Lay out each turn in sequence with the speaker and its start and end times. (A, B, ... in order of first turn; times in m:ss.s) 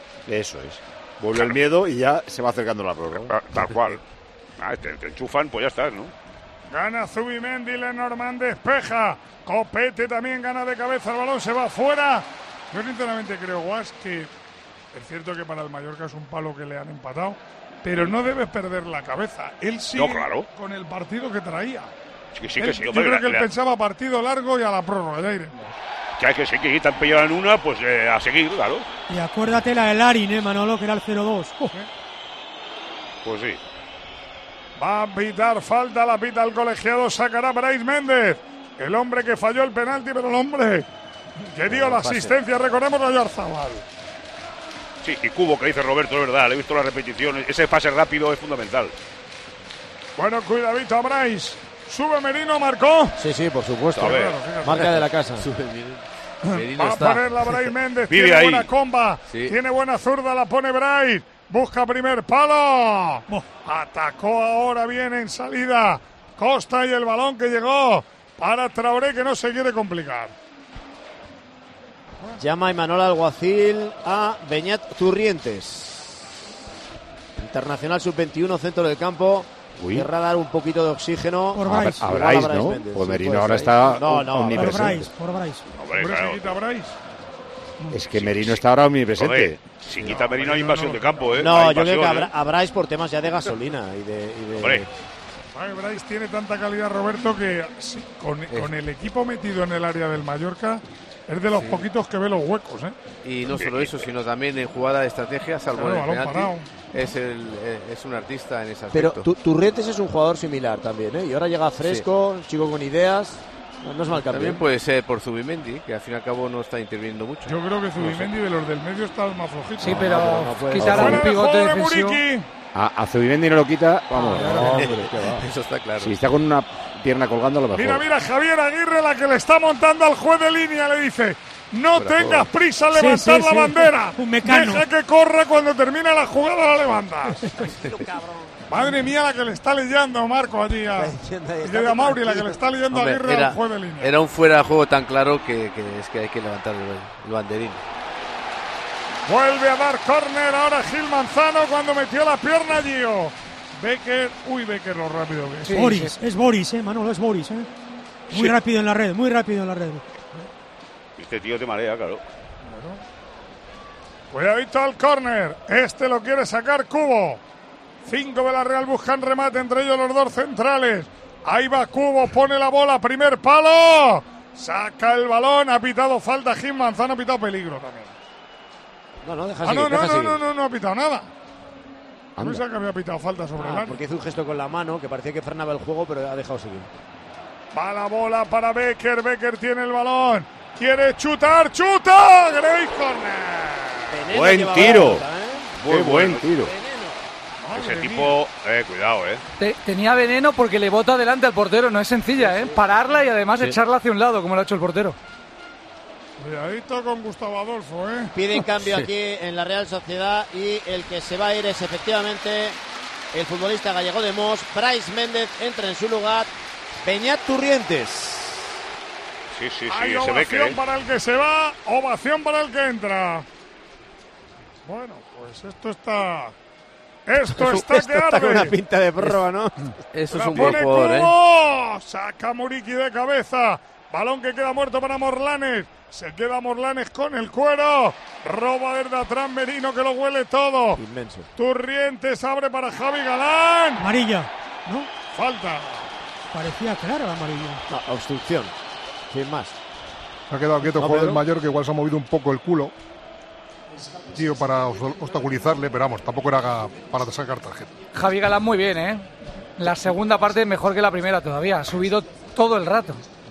0:00.3-0:03.4 A
0:03.2-0:04.0 B
0:04.6-0:06.1 B
0:06.7-0:14.3 C
0:14.9-0:21.9 C
0:19.9-0:20.5 B
0:22.4-0:23.4 B
0:22.6-0:25.7 C
0:26.2-0:28.8 B
0:29.1-0:31.7 D
0:33.2-0:33.6 B
0:34.8-0:40.9 C
0:41.4-0:43.8 C
0:41.8-0:42.3 E
0:45.0-0:48.9 B
0:50.2-0:53.2 C
0:53.2-0:55.5 E
0:53.9-0:54.4 B
0:54.0-0:54.9 C
0:54.7-0:57.5 F
0:56.5-1:10.3 C
0:58.1-0:58.7 B
0:59.3-0:59.6 F
1:12.4-1:16.3 E
1:17.4-1:25.0 E
1:19.8-1:20.1 A
1:21.5-1:22.1 D
1:21.6-1:25.1 A
1:24.5-1:25.6 D
1:25.7-1:26.6 B
1:25.9-1:27.0 C
1:27.9-1:29.6 A
1:28.1-1:28.6 B
1:29.2-1:32.3 B
1:30.0-1:31.6 C
1:31.3-1:34.9 E
1:34.6-1:34.8 B
1:35.5-1:43.0 C
1:41.5-1:41.8 F
1:43.2-1:49.3 F
1:43.5-1:44.1 B
1:45.7-1:46.9 C
1:48.9-1:54.6 E
1:54.2-1:58.3 F
1:57.4-2:02.5 C
1:59.8-2:02.2 G
1:59.8-2:01.3 E
2:02.7-2:05.2 A
2:04.3-2:05.4 E
2:04.4-2:06.2 F
2:06.0-2:08.0 A
2:07.7-2:17.5 C
2:12.0-2:12.5 F
2:12.9-2:14.8 D
2:17.6-2:18.9 E
2:18.7-2:24.1 C
2:20.9-2:22.6 E
2:22.9-2:27.8 F
2:29.2-2:35.8 C
2:35.7-2:36.1 G
2:35.7-2:37.7 D
2:38.3-2:40.0 D
2:41.2-2:42.2 B
2:42.6-2:43.0 C
2:44.3-2:47.4 C
2:48.0-2:58.1 C
2:59.2-3:00.4 E
2:59.6-3:01.3 C
3:02.4-3:02.6 A
3:02.4-3:04.0 C
3:03.6-3:06.9 E
3:07.7-3:14.3 C
3:14.1-3:15.7 E
3:14.3-3:15.2 A
3:15.8-3:16.5 B
3:15.8-3:16.7 A
3:16.6-3:17.2 E
3:17.6-3:18.4 C
3:17.7-3:19.4 B
3:19.6-3:25.2 G
3:22.4-3:22.8 E
3:26.4-3:28.3 C
3:28.3-3:32.8 E
3:33.3-3:36.5 E
3:37.0-3:38.8 E
3:39.5-3:40.8 B
3:39.9-3:43.4 C
3:44.8-3:46.5 C
3:47.2-3:48.7 C
3:47.5-3:49.9 E
3:49.2-3:49.4 F
3:50.1-3:51.3 F
3:50.3-4:01.0 C
3:50.6-3:50.8 E
4:01.0-4:01.5 E
4:01.6-4:04.1 C
4:04.0-4:05.1 D
4:05.3-4:06.1 C
4:06.5-4:07.8 D
4:07.9-4:08.7 E
4:09.3-4:09.8 E
4:10.5-4:12.9 H
4:10.8-4:11.4 E
4:14.3-4:17.9 H
4:18.1-4:19.2 G
4:19.8-4:23.2 G